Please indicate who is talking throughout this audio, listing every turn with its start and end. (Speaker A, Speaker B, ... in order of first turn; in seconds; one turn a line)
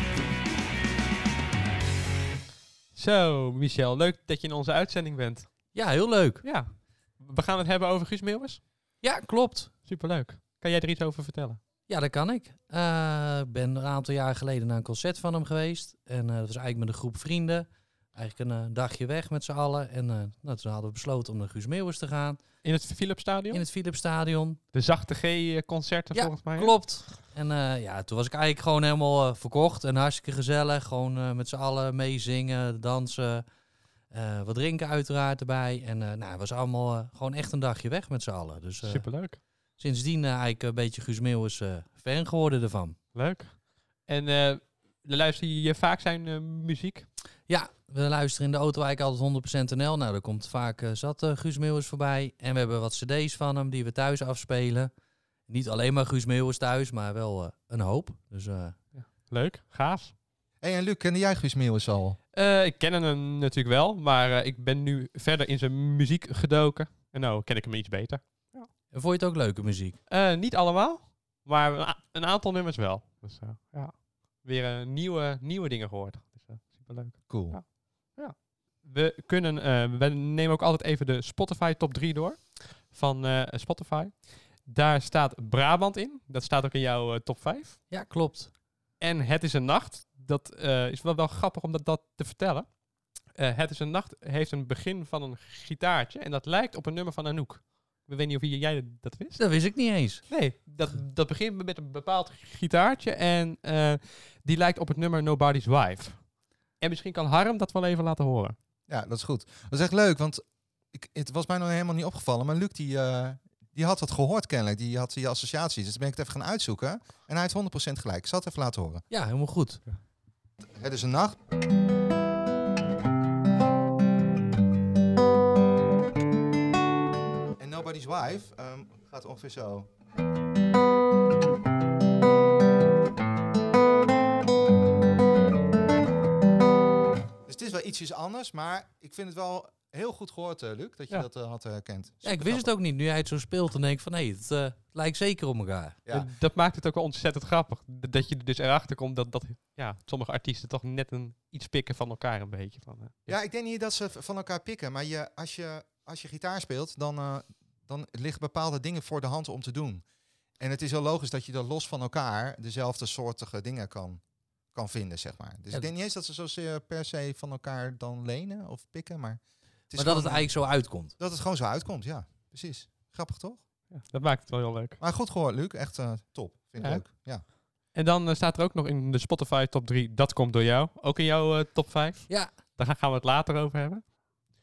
Speaker A: 2.9-5.6
Speaker B: 5.7-6.4
Speaker A: 6.4-8.6
Speaker B: 9.0-9.7
Speaker A: 9.8-11.6
Speaker B: 11.9-22.4
Speaker A: 22.6-23.6
Speaker B: 23.5-24.6
Speaker A: 24.7-26.7
Speaker B: 26.1-33.4
Speaker B: 34.1-39.1
Speaker A: 38.8-39.4
Speaker B: 39.8-43.0
Speaker A: 43.1-47.1
Speaker B: 47.5-54.9
Speaker B: 55.5-58.8
Speaker A: 58.9-60.1
Speaker C: 60.6-62.2
Speaker A: 62.3-68.7
Speaker B: 68.9-70.0
Speaker A: 70.1-87.8
Speaker C: 77.3-77.7
Speaker B: 87.9-88.5
Speaker A: 89.0-108.5
Speaker B: 99.3-100.3
Speaker C: 108.9-119.0
Speaker B: 119.1-119.8
Speaker C: 120.8-121.4
Speaker C: 127.6-129.9
Speaker C: 137.5-142.7
Speaker B: 142.2-146.0
Speaker A: 146.1-153.1
Speaker C: 153.3-160.0
Speaker C: 160.6-164.2
Speaker C: 164.7-173.6
Speaker B: 169.9-171.2
Speaker A: 173.9-175.0
Speaker C: 175.0-177.4
Speaker A: 177.9-184.2